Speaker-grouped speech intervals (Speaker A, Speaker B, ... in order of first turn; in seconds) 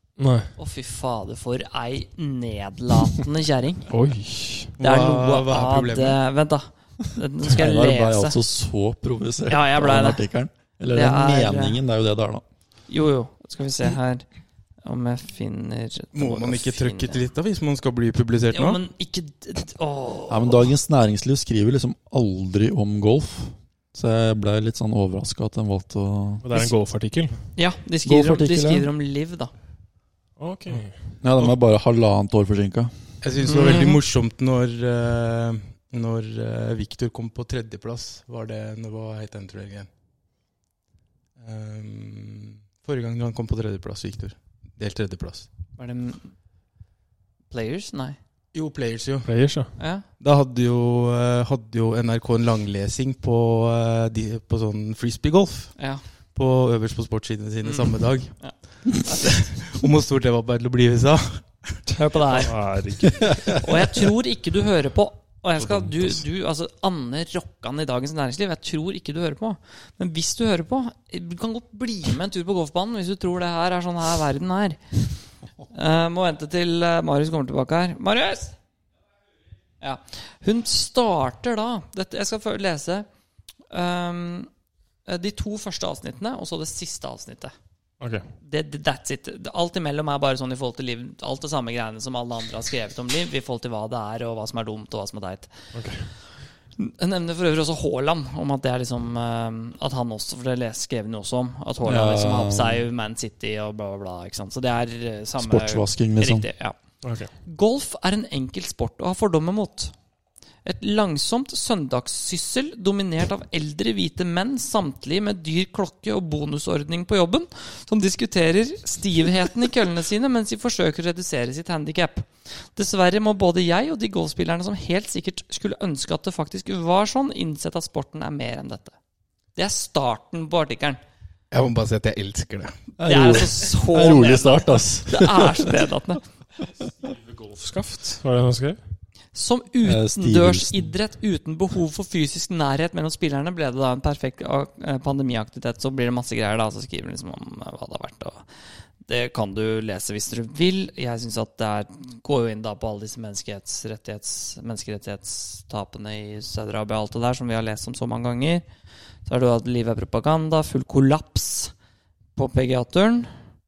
Speaker A: 0.2-0.5, 3.9-4.7, 26.4-27.4, 30.4-30.9, 49.2-49.7, 62.3-63.6, 95.7-96.1, 107.0-107.3, 137.0-138.8
Speaker B: 0.6-3.9, 4.8-8.4, 9.5-10.2, 10.9-11.8, 12.9-14.2, 14.8-17.3, 18.5-20.7, 27.6-29.5, 33.5-34.0, 45.8-46.3, 47.5-48.2, 49.8-50.0, 55.8-56.0, 57.6-58.5, 59.1-59.3, 61.9-62.5, 63.5-75.0, 75.7-78.5, 79.8-83.1, 83.7-84.5, 85.0-87.5, 88.4-95.5, 96.8-106.8, 107.4-109.9, 110.6-128.9, 129.6-131.0, 133.0-136.2, 139.3-148.4, 149.1-158.6, 159.2-161.7, 162.3-163.3
Speaker C: 4.8-6.2, 16.1-18.8, 33.2-39.9, 41.4-45.5, 48.5-49.3, 50.2-55.8, 56.3-58.3, 59.0-61.7, 131.5-132.7
Speaker D: 7.4-12.4, 20.3-26.7, 28.0-28.9, 31.2-32.9, 63.1-63.6, 65.6-66.0, 101.8-102.8, 105.4-106.5, 133.0-135.8, 139.8-140.9